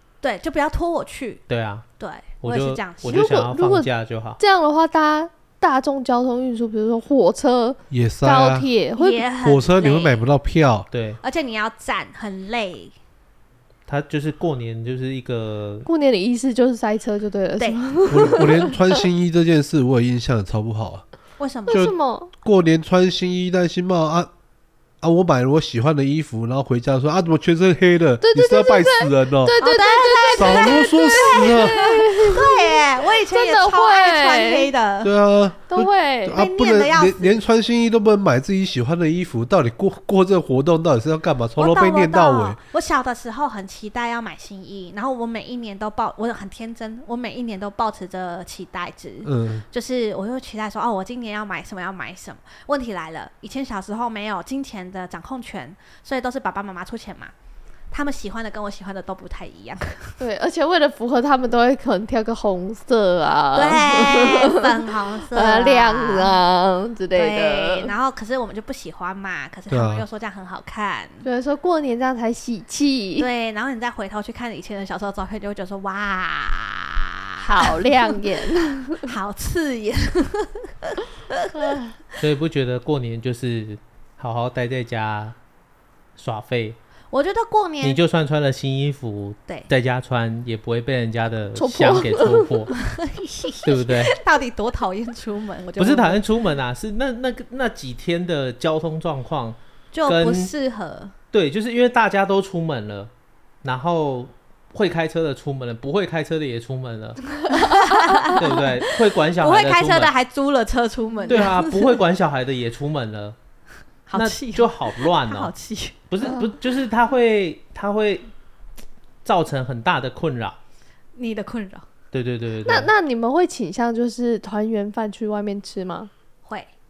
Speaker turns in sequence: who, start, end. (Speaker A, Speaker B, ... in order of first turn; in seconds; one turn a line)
Speaker A: 0.2-1.4
Speaker B: 1.5-1.9
Speaker A: 2.0-3.2
Speaker B: 2.4-4.4
Speaker C: 3.0-9.2
Speaker D: 7.9-8.7
Speaker A: 8.9-10.2
Speaker D: 9.4-10.9
Speaker B: 10.9-11.2
Speaker A: 11.2-12.9
Speaker B: 13.9-15.9
Speaker C: 15.8-18.7
Speaker D: 18.1-21.0
Speaker A: 21.4-21.8
Speaker C: 21.7-22.3
Speaker D: 21.7-24.3
Speaker D: 25.0-29.6
Speaker C: 28.2-34.7
Speaker A: 29.6-35.1
Speaker D: 30.4-31.9
Speaker D: 35.0-42.6
Speaker C: 35.7-36.4
Speaker A: 36.3-37.3
Speaker A: 41.6-57.3
Speaker D: 49.2-49.6
Speaker A: 57.9-60.2
Speaker C: 60.2-64.8
Speaker A: 63.5-66.4
Speaker C: 65.3-67.9
Speaker A: 67.1-71.2
Speaker D: 69.7-70.0
Speaker C: 71.2-73.3
Speaker A: 73.2-78.2
Speaker C: 77.4-79.0
Speaker A: 79.0-81.4
Speaker C: 81.5-82.0
Speaker B: 82.2-85.3
Speaker B: 86.2-86.8
Speaker A: 87.1-88.0
Speaker B: 87.8-92.8
Speaker C: 91.5-92.5
Speaker A: 92.9-96.2
Speaker B: 93.6-94.2
Speaker B: 95.8-100.5
Speaker A: 99.9-101.1
Speaker B: 101.3-103.1
Speaker B: 103.6-107.2
Speaker C: 107.5-108.4
Speaker A: 107.5-108.6
Speaker B: 108.3-110.1
Speaker A: 109.4-112.0
Speaker B: 111.3-113.3
Speaker A: 114.1-116.3
Speaker B: 114.1-115.5
Speaker B: 116.1-118.3
Speaker C: 116.2-116.5
Speaker B: 119.2-120.6
Speaker A: 121.2-121.8
Speaker B: 122.1-122.9
Speaker C: 122.7-126.1
Speaker A: 126.4-126.7